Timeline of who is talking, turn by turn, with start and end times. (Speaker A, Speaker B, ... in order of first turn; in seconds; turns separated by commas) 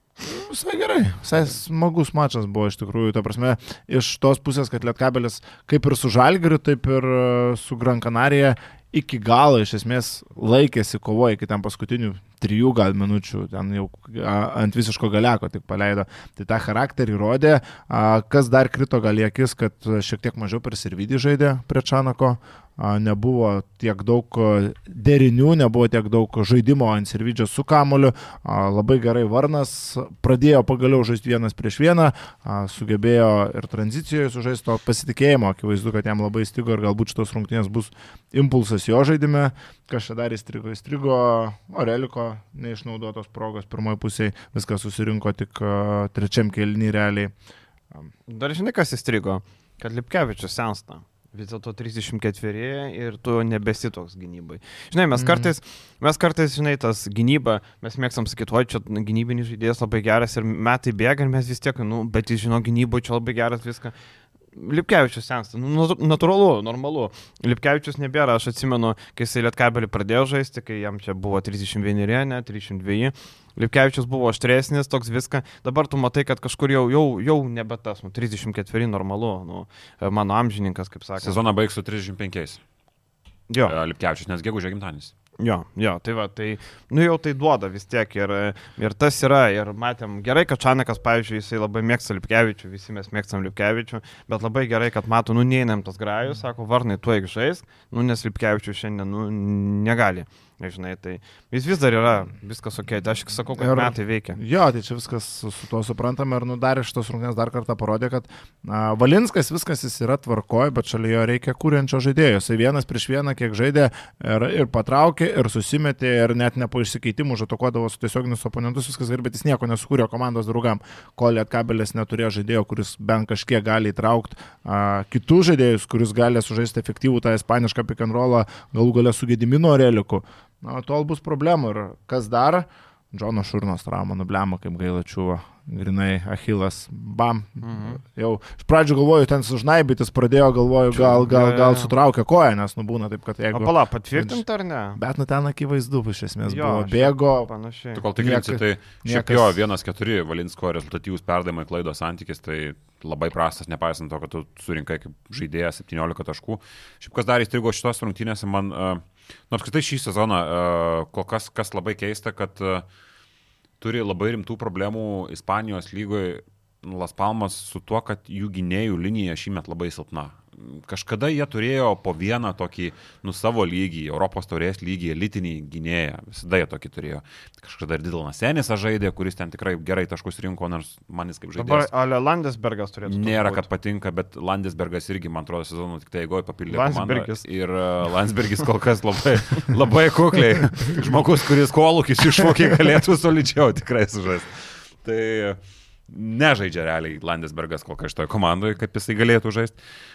Speaker A: 0.2-47.3, Speaker B: 48.3-63.9, Speaker A: 55.1-55.5, Speaker B: 64.5-81.3, Speaker C: 81.2-82.6, Speaker C: 83.7-85.1, Speaker B: 85.4-104.4, Speaker A: 103.6-144.4, Speaker B: 137.6-138.0, Speaker B: 140.9-141.9, Speaker B: 143.5-145.0, Speaker A: 144.9-147.5, Speaker B: 146.4-148.0, Speaker C: 147.9-162.8, Speaker A: 148.2-149.6, Speaker C: 163.8-181.9, Speaker B: 181.6-183.7, Speaker C: 183.1-199.8, Speaker B: 186.7-187.4